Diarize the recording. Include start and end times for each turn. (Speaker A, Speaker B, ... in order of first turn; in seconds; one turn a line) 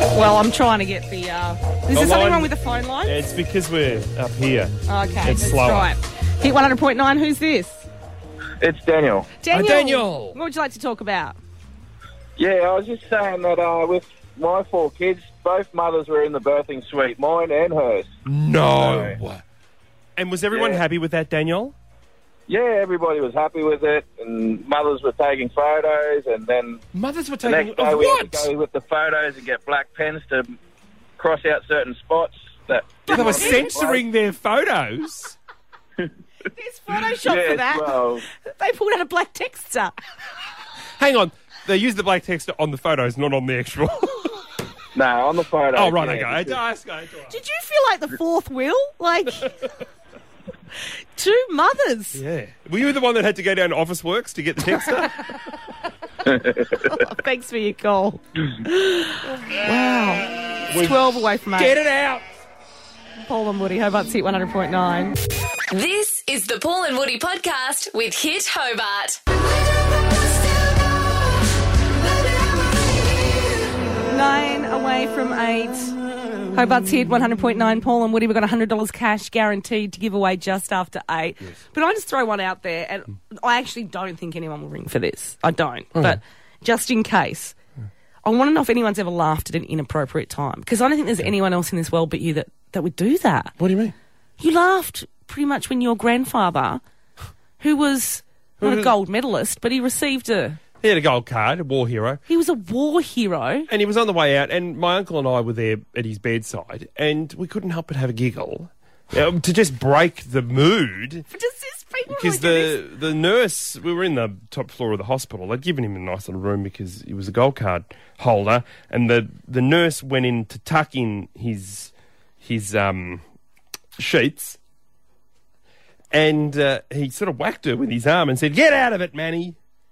Speaker A: 0.1-3.2
Speaker B: 1.9-2.5
Speaker B: 3.0-5.9
Speaker A: 4.9-7.8
Speaker C: 8.6-9.3
Speaker A: 9.4-11.4
Speaker B: 9.5-10.4
Speaker C: 12.4-18.1
Speaker B: 18.2-19.4
Speaker C: 18.8-19.1
Speaker B: 20.2-21.8
Speaker C: 20.5-20.8
Speaker C: 22.5-26.8
Speaker B: 26.9-28.5
Speaker C: 27.4-30.6
Speaker C: 31.2-34.0
Speaker B: 33.1-35.4
Speaker A: 33.1-33.8
Speaker A: 36.6-40.0
Speaker C: 37.2-38.2
Speaker B: 41.0-44.3
Speaker C: 45.0-46.5
Speaker B: 45.7-47.4
Speaker A: 47.3-49.5
Speaker B: 49.4-49.7
Speaker A: 51.2-52.2
Speaker B: 52.1-55.4
Speaker A: 56.5-61.8
Speaker B: 60.7-62.3
Speaker A: 63.2-65.2
Speaker D: 65.7-69.2
Speaker A: 74.1-76.0
Speaker A: 76.5-87.5
Speaker A: 88.2-93.5
Speaker B: 93.6-94.0
Speaker A: 94.4-96.8
Speaker A: 97.6-100.6
Speaker B: 98.6-99.0
Speaker B: 100.8-102.2
Speaker A: 102.3-103.7
Speaker B: 103.7-111.3
Speaker A: 111.3-112.8
Speaker B: 112.1-123.2
Speaker B: 124.0-124.6
Speaker B: 126.1-129.6